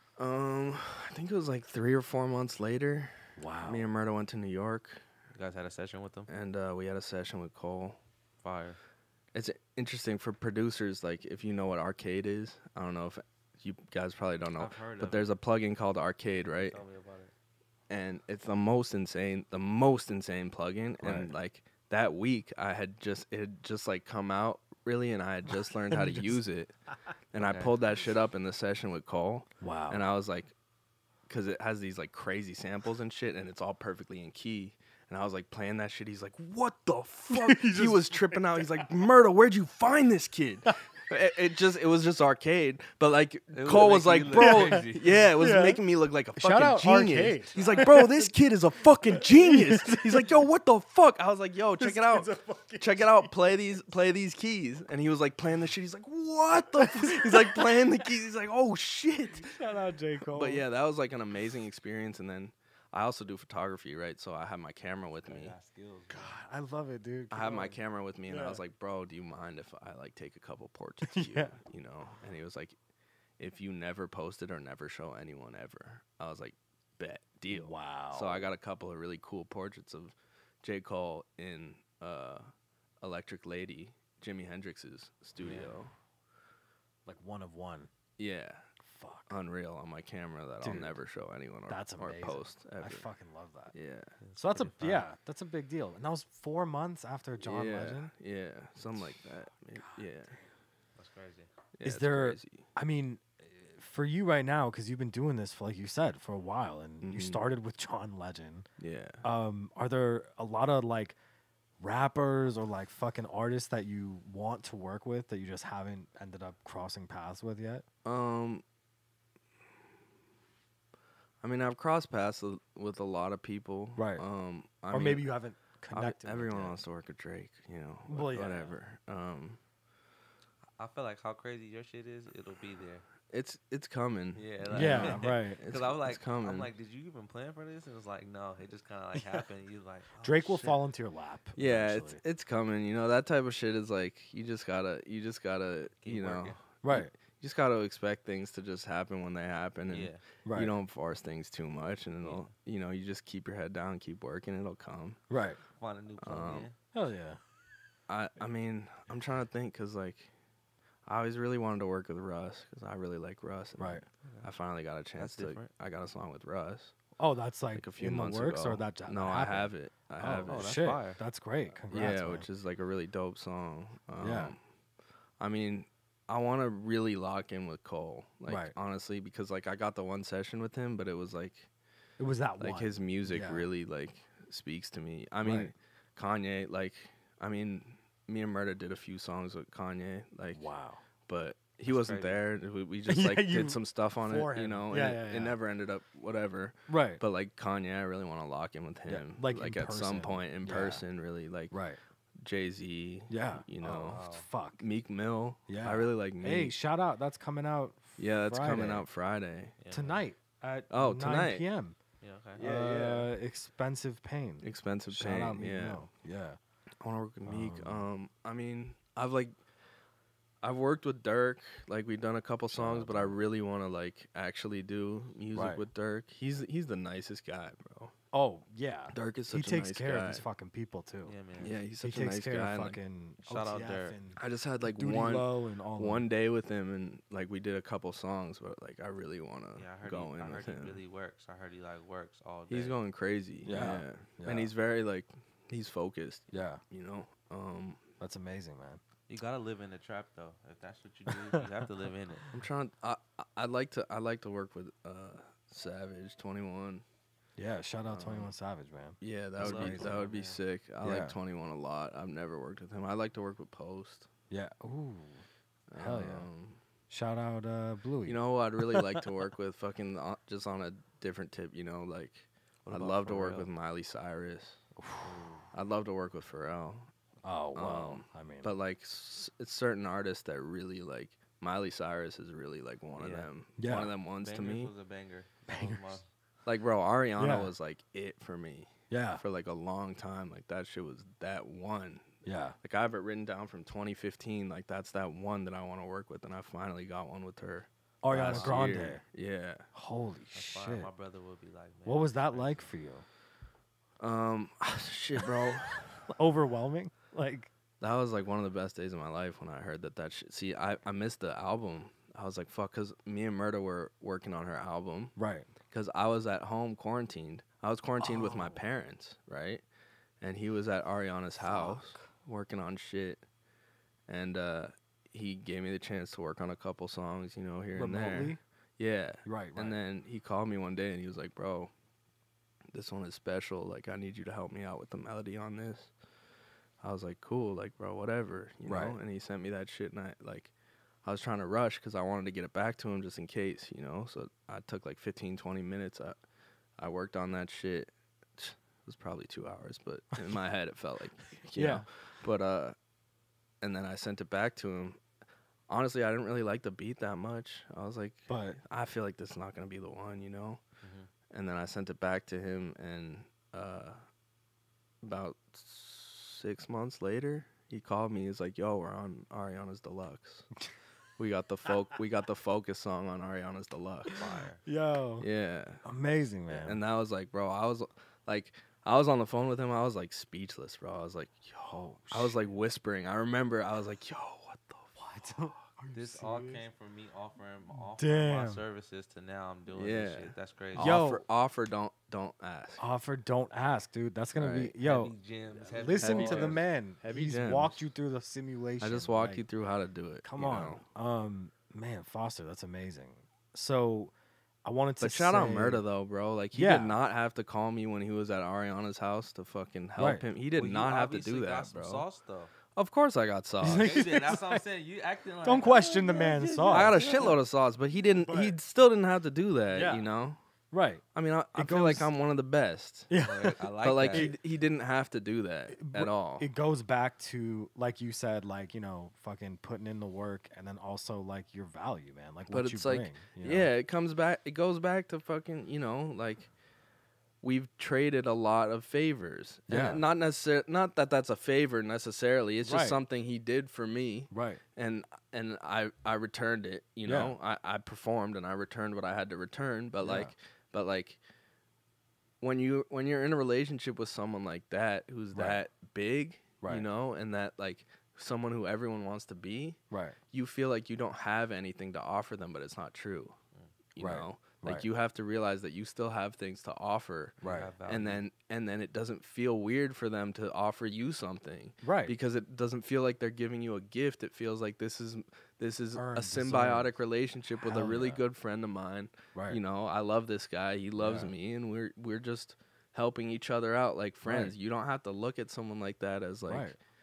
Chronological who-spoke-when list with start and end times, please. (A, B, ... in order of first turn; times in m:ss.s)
0:00.2-0:05.0 A
0:03.4-0:03.9 B
0:05.4-0:06.3 C
0:06.3-0:08.0 A
0:08.4-0:08.8 C
0:09.3-0:16.8 A
0:14.6-0:15.3 C
0:16.5-0:17.3 C
0:17.9-0:26.7 A
0:21.0-0:21.3 B
0:25.9-0:26.4 B
0:27.3-0:30.5 A
0:27.4-0:27.7 C
0:29.6-0:30.0 B
0:31.3-0:59.5 A
0:37.3-0:38.9 B
0:43.5-0:45.2 C
0:44.3-0:45.8 B
0:46.4-0:48.3 B
0:49.1-0:50.3 B
0:51.8-0:53.4 B
0:56.7-0:57.9 B
0:59.3-1:00.6 B
1:00.3-1:05.6 A
1:05.2-1:06.4 C
1:06.1-1:08.6 B
1:07.3-1:12.8 A
1:11.1-1:11.6 B
1:13.4-1:22.5 A
1:17.5-1:18.5 B
1:23.0-1:25.9 A
1:25.4-1:25.7 C
1:27.1-1:27.9 B
1:28.2-1:28.6 A
1:28.8-1:29.4 B
1:29.3-1:33.1 A
1:30.6-1:31.0 B
1:31.7-1:33.7 B
1:33.7-1:34.1 A
1:34.2-1:35.1 C
1:34.4-1:38.1 B
1:37.4-1:40.4 A
1:41.0-1:41.5 C
1:41.8-1:42.6 A
1:41.8-1:48.7 B
1:47.0-1:47.4 A
1:48.8-1:49.2 A
1:49.2-1:51.2 B
1:51.8-1:57.8 B
1:58.0-1:58.6 A
2:01.4-2:05.3 A
2:04.0-2:04.2 B
2:04.9-2:06.8 B
2:05.9-2:09.6 A
2:08.1-2:08.7 B
2:10.8-2:13.1 C
2:13.3-2:16.7 A
2:14.4-2:20.8 C
2:14.7-2:15.6 B
2:19.2-2:19.4 B
2:20.2-2:22.2 B
2:21.6-2:35.2 A
2:26.0-2:26.6 C
2:26.8-2:27.1 B
2:29.9-2:30.2 C
2:30.4-2:30.7 B
2:32.2-2:32.5 C
2:35.3-2:35.6 B
2:35.8-2:36.8 C
2:36.2-2:36.7 A
2:36.9-2:37.4 B
2:38.1-2:40.3 A
2:41.1-2:46.9 A
2:43.8-2:44.0 B
2:45.2-2:45.7 C
2:47.2-2:52.5 B
2:47.7-2:50.9 A
2:50.5-2:51.2 C
2:51.9-2:54.6 A
2:54.2-2:54.5 B
2:55.4-3:01.7 A
2:58.5-2:58.7 B
3:02.2-3:03.7 B
3:02.6-3:10.7 A
3:05.4-3:05.7 B
3:10.5-3:11.0 B
3:11.3-3:21.7 A
3:11.9-3:12.4 C
3:13.1-3:15.6 B
3:16.9-3:17.2 B
3:19.1-3:21.0 B
3:21.7-3:22.0 B
3:22.4-3:24.2 A
3:23.3-3:24.8 B
3:24.1-3:24.5 C
3:24.8-3:26.8 A
3:25.7-3:29.1 B
3:28.2-3:29.7 A
3:29.8-3:30.2 C
3:29.9-3:32.0 B
3:30.9-3:31.6 A
3:32.2-3:32.6 C
3:32.6-3:33.3 A
3:32.6-3:36.6 B
3:34.6-3:36.1 A
3:37.0-3:39.6 A
3:37.5-3:38.1 B
3:40.6-3:48.1 A
3:42.7-3:43.4 B
3:45.5-3:45.8 B
3:48.3-3:51.4 B
3:49.1-3:50.4 A
3:51.3-3:51.7 C
3:51.6-3:53.0 A
3:52.0-3:56.3 B
3:53.4-3:54.2 C
3:54.4-4:01.0 A
3:59.8-4:03.0 C
4:02.7-4:08.0 A
4:03.6-4:04.7 B
4:06.5-4:06.8 B
4:08.2-4:09.0 B
4:09.3-4:12.6 C
4:11.3-4:11.6 B
4:12.5-4:17.0 A
4:17.6-4:20.2 B
4:18.1-4:18.5 A
4:19.2-4:24.3 A
4:19.6-4:20.6 C
4:21.0-4:21.4 B
4:24.5-4:25.4 B
4:25.9-4:26.8 A
4:26.0-4:26.5 B
4:27.1-4:29.2 B
4:28.2-4:34.8 A
4:32.8-4:33.7 C
4:35.0-4:35.4 B
4:35.2-4:35.7 C
4:35.7-4:37.1 A
4:37.4-4:38.8 B
4:37.8-4:44.9 A
4:43.2-4:43.5 C
4:43.8-4:44.1 B
4:44.4-4:46.3 C
4:45.7-4:46.2 B
4:46.7-4:52.3 A
4:47.4-4:47.7 B
4:49.1-4:49.4 B
4:52.4-4:52.8 B
4:52.8-4:59.9 A
4:58.2-4:59.2 B
4:58.4-4:58.9 C
4:59.9-5:01.1 B
5:00.5-5:02.9 C
5:02.1-5:03.2 B
5:04.2-5:06.2 A
5:06.3-5:07.7 B
5:08.0-5:15.3 A
5:15.4-5:15.7 B
5:15.9-5:19.8 A
5:18.2-5:18.8 B
5:20.4-5:23.4 A
5:21.6-5:22.2 B
5:24.3-5:31.9 A
5:27.9-5:28.6 B
5:29.4-5:30.0 B
5:32.9-5:36.1 A
5:37.0-5:40.7 A
5:38.8-5:39.2 B
5:41.2-5:46.4 A
5:47.0-5:53.0 A
5:51.7-5:52.0 B
5:53.8-5:55.2 A
5:55.9-6:00.8 A
5:58.5-5:58.8 B
6:01.0-6:01.3 C
6:01.5-6:04.2 A
6:05.2-6:10.7 A
6:11.4-6:14.4 A
6:14.3-6:15.5 B
6:14.3-6:14.8 C
6:15.4-6:16.0 A
6:16.0-6:17.0 B
6:16.7-6:25.2 A
6:21.9-6:22.7 B
6:25.2-6:26.9 B
6:26.1-6:31.2 C
6:27.9-6:28.8 B
6:29.9-6:33.0 A
6:31.0-6:31.4 B
6:33.0-6:35.3 B
6:34.6-6:34.9 A
6:35.0-6:36.8 C
6:35.8-6:39.6 B
6:36.2-6:38.0 A
6:39.0-6:41.0 A
6:40.4-6:44.3 B
6:44.8-6:46.0 B
6:45.2-6:52.2 A
6:46.7-6:47.2 B
6:50.2-6:50.4 B
6:50.8-6:52.7 C
6:52.9-6:54.2 A
6:53.8-6:54.8 B
6:54.0-6:57.6 C
6:55.6-6:57.5 B
6:56.9-7:00.6 A
6:58.4-6:58.8 B
6:59.9-7:00.3 B
7:00.9-7:01.2 B
7:01.3-7:03.3 A
7:01.7-7:02.3 B
7:03.3-7:04.6 B
7:03.4-7:04.5 C
7:04.0-7:06.7 A
7:05.9-7:13.9 B
7:12.7-7:16.7 A
7:17.6-7:31.4 A
7:19.9-7:20.2 B
7:22.8-7:23.2 B
7:24.5-7:24.8 B
7:27.2-7:27.6 B
7:30.2-7:30.5 B
7:32.6-7:40.0 A
7:35.5-7:35.8 B
7:36.8-7:37.1 B
7:40.1-7:40.4 B
7:40.5-7:43.6 A
7:44.2-7:47.6 A
7:44.2-7:45.1 B
7:47.6-7:47.9 B
7:47.6-7:48.4 C
7:48.1-8:06.9 A
7:52.0-7:52.3 B
7:56.2-7:57.2 B
7:57.8-7:58.4 B
8:01.2-8:01.5 B
8:04.4-8:04.7 B
8:06.7-8:07.0 B